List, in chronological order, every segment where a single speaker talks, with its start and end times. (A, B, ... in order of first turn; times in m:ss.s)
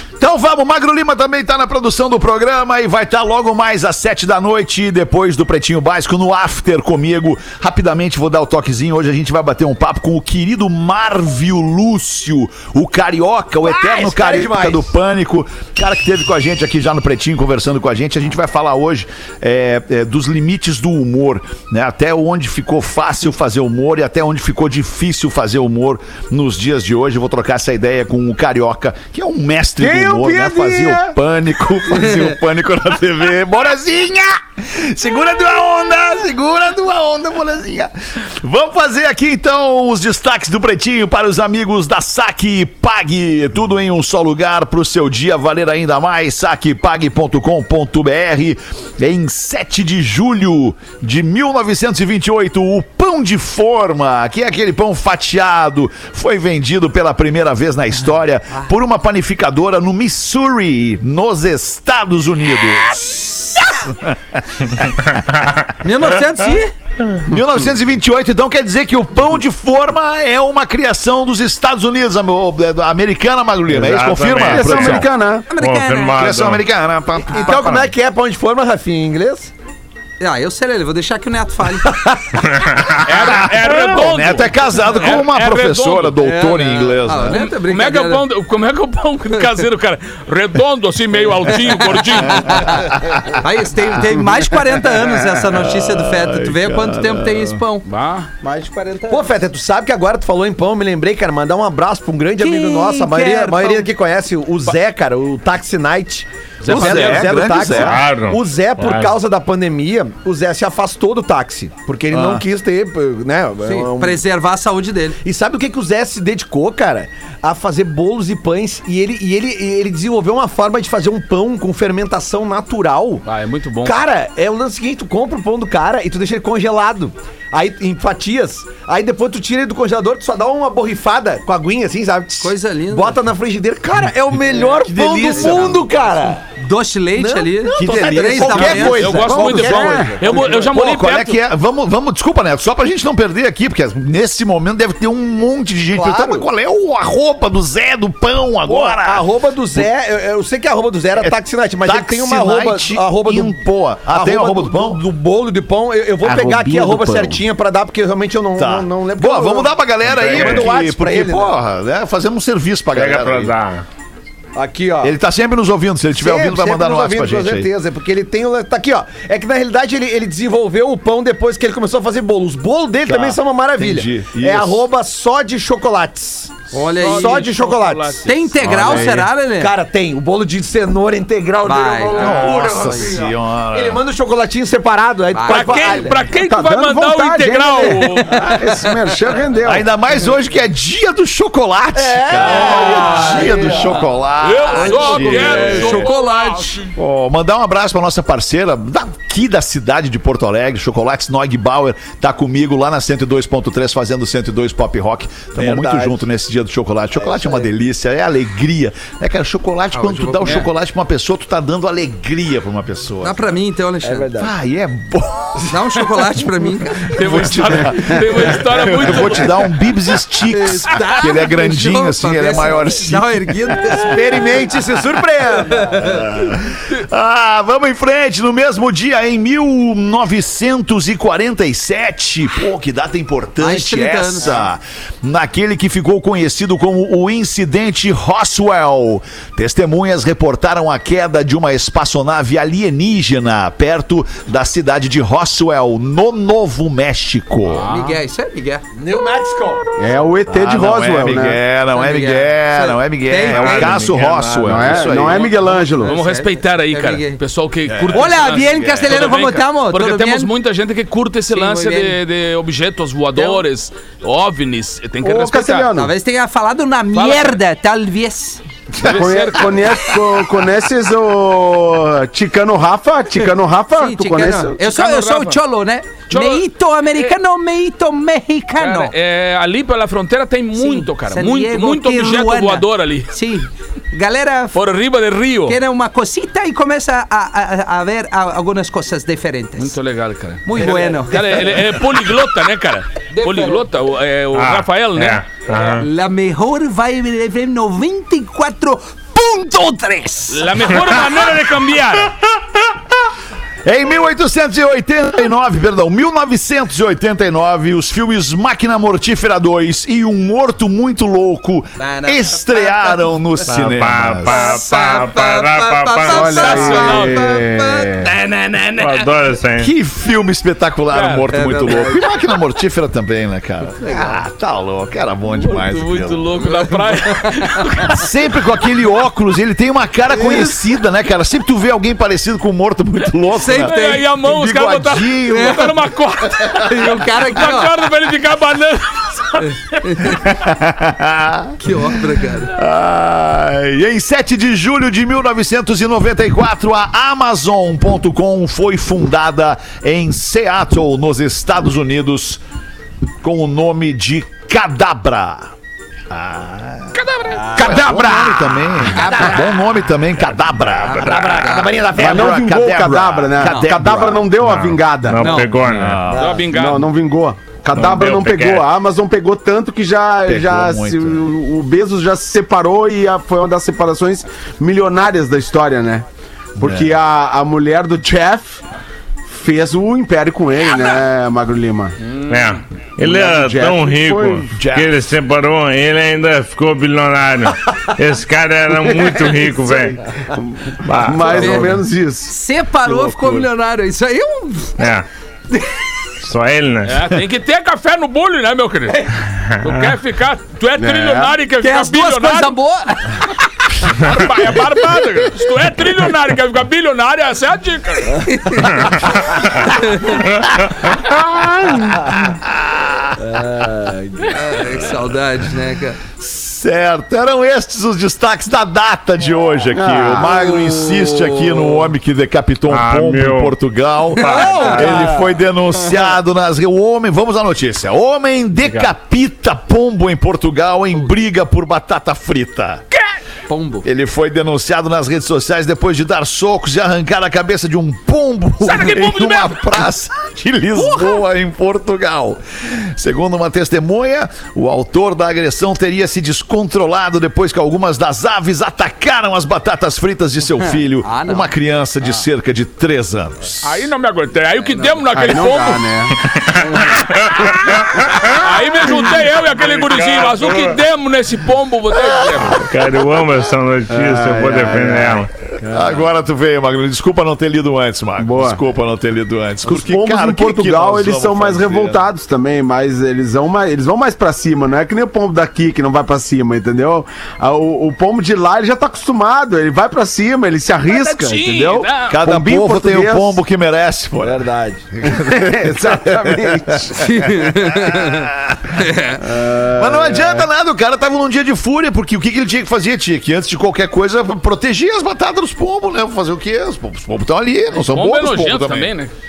0:00.2-1:05.4 A
0:13.6-0:14.9 B
0:29.8-0:31.2 C
1:05.8-1:06.7 D
1:07.3-1:15.0 A
1:13.7-1:15.0 E
1:14.3-1:15.5 C
1:15.5-1:16.3 D
1:15.6-1:16.6 E
1:16.2-1:17.9 A
1:17.3-1:19.5 B
1:20.2-1:21.9 D
1:21.8-1:22.4 B
1:22.6-1:23.0 E
1:23.0-1:26.2 F
1:23.1-1:27.4 A
1:26.2-1:28.2 D
1:27.2-1:32.8 F
1:32.3-1:37.8 D
1:32.9-1:33.4 A
1:34.2-1:34.4 C
1:35.4-1:37.6 A
1:37.8-1:38.3 F
1:38.4-1:39.3 D
1:39.1-1:54.2 B
1:42.4-1:43.9 D
1:46.6-1:47.3 F
1:46.7-1:48.0 A
1:47.6-1:49.1 E
1:52.1-1:52.4 A
1:53.6-1:55.2 D
1:55.2-2:03.2 B
2:03.2-2:04.0 F
2:03.8-2:16.4 B
2:12.4-2:13.2 D
2:14.5-2:15.9 A
2:15.3-2:15.8 D
2:16.6-2:19.3 D
2:17.2-2:20.7 B
2:17.7-2:29.9 A
2:18.6-2:21.4 F
2:19.6-2:20.1 C
2:25.9-2:26.4 B
2:28.6-2:41.6 B
2:31.1-2:35.0 A
2:36.2-2:37.4 C
2:38.6-2:43.5 A
2:40.0-2:40.7 E
2:42.9-2:43.8 E
2:44.6-2:45.1 B
2:45.0-2:47.7 A
2:46.1-3:06.3 B
2:53.0-2:54.8 A
2:56.7-2:57.5 D
2:56.7-2:59.1 F
2:58.2-2:59.7 D
2:58.6-2:59.3 A
3:01.6-3:03.1 D
3:02.1-3:04.0 A
3:05.3-3:06.1 D
3:05.5-3:08.6 F
3:06.4-3:09.8 C
3:07.8-3:08.6 B
3:09.6-3:16.1 A
3:12.0-3:14.0 B
3:12.4-3:16.9 F
3:12.6-3:13.5 D
3:14.7-3:16.8 D
3:15.2-3:16.0 B
3:16.9-3:33.4 A
3:25.5-3:26.2 B
3:27.2-3:27.7 B
3:29.9-3:30.7 D
3:33.2-3:34.3 D
3:34.0-3:34.5 B
3:34.4-3:36.0 A
3:35.7-3:37.2 D
3:37.1-3:39.9 F
3:37.1-3:44.8 A
3:40.5-3:44.5 D
3:43.9-3:46.3 B
3:45.9-4:07.9 A
3:53.6-3:54.5 D
4:07.7-4:08.2 F
4:07.9-4:08.8 D
4:09.0-4:10.1 B
4:10.0-4:11.6 C
4:10.5-4:15.5 A
4:11.9-4:14.3 D
4:13.5-4:14.6 E
4:14.6-4:16.2 C
4:15.2-4:25.9 F
4:16.0-4:17.4 D
4:17.9-4:18.3 A
4:18.1-4:20.5 D
4:21.5-4:22.2 D
4:23.3-4:23.6 D
4:25.2-4:26.1 C
4:25.9-4:28.6 D
4:27.1-4:27.6 F
4:28.9-4:30.1 F
4:29.0-4:34.8 C
4:33.9-4:39.1 D
4:34.8-4:35.6 F
4:36.3-4:37.3 F
4:38.8-4:43.3 F
4:40.8-4:44.8 D
4:44.7-4:45.8 F
4:45.7-4:50.0 D
4:49.8-4:55.9 F
4:50.6-4:52.0 D
4:50.8-4:51.2 B
4:53.3-4:53.8 D
4:54.5-4:56.1 E
4:55.8-5:00.9 D
5:00.5-5:02.4 F
5:03.8-5:14.6 A
5:12.0-5:13.3 D
5:13.6-5:16.9 E
5:14.5-5:18.1 D
5:16.2-5:18.3 C
5:16.4-5:17.5 F
5:18.2-5:19.4 F
5:19.0-5:19.9 E
5:19.8-5:26.5 A
5:21.1-5:21.5 F
5:21.5-5:22.3 D
5:24.0-5:24.4 D
5:25.5-5:28.4 F
5:26.6-5:27.8 D
5:28.1-5:35.9 A
5:30.3-5:30.8 D
5:33.6-5:34.2 D
5:33.6-5:40.4 F
5:35.5-5:35.9 D
5:36.7-5:38.0 D
5:39.6-5:40.4 D
5:40.3-5:52.6 A
5:41.8-5:42.7 D
5:53.4-5:55.7 A
5:56.3-5:57.2 A
5:57.1-5:58.0 F
5:57.5-5:59.8 B
5:57.8-6:04.5 A
5:59.2-5:59.5 D
6:01.0-6:02.0 D
6:01.1-6:02.6 B
6:02.2-6:06.1 C
6:03.6-6:03.9 D
6:04.6-6:06.3 E
6:05.4-6:05.7 D
6:05.9-6:06.6 A
6:06.3-6:06.7 B
6:06.3-6:07.1 F
6:06.7-6:16.2 C
6:07.9-6:08.9 E
6:10.4-6:11.4 A
6:16.8-6:17.1 A
6:16.8-6:18.8 C
6:19.5-6:22.1 C
6:22.2-6:22.8 F
6:22.5-6:30.2 E
6:23.2-6:24.7 C
6:24.7-6:25.1 A
6:29.5-6:29.9 C
6:30.5-6:32.5 C
6:31.0-6:32.0 E
6:31.5-6:35.0 D
6:35.0-6:35.3 E
6:36.4-6:37.4 E
6:37.0-6:42.7 F
6:39.6-6:40.0 E
6:41.0-6:41.6 C
6:41.8-6:43.6 D
6:44.2-6:48.5 F
6:48.4-6:49.1 D
6:49.7-6:50.4 D
6:51.7-6:53.6 A
6:53.4-6:54.6 B
6:54.5-6:56.2 D
6:56.4-7:13.0 A
6:59.9-7:00.6 C
7:00.4-7:02.0 D
7:02.9-7:03.7 E
7:04.4-7:05.4 E
7:04.4-7:05.4 D
7:13.7-7:14.1 D
7:14.0-7:34.1 A
7:18.8-7:20.0 F
7:21.0-7:21.3 D
7:30.8-7:31.7 D
7:33.8-7:36.2 F
7:34.9-7:35.2 D
7:35.3-7:36.4 C
7:36.4-7:38.6 E
7:38.0-7:42.8 F
7:40.0-7:41.0 E
7:40.1-7:40.6 A
7:42.1-7:42.7 A
7:42.8-7:45.5 E
7:44.1-7:46.1 C
7:45.8-7:52.2 A
7:48.4-7:48.8 C
7:49.9-8:03.6 C
8:01.1-8:02.4 F
8:02.3-8:09.1 A
8:04.4-8:05.1 B
8:05.3-8:07.2 C
8:07.1-8:09.4 D
8:09.5-8:10.6 C
8:09.6-8:19.1 A
8:17.9-8:19.3 F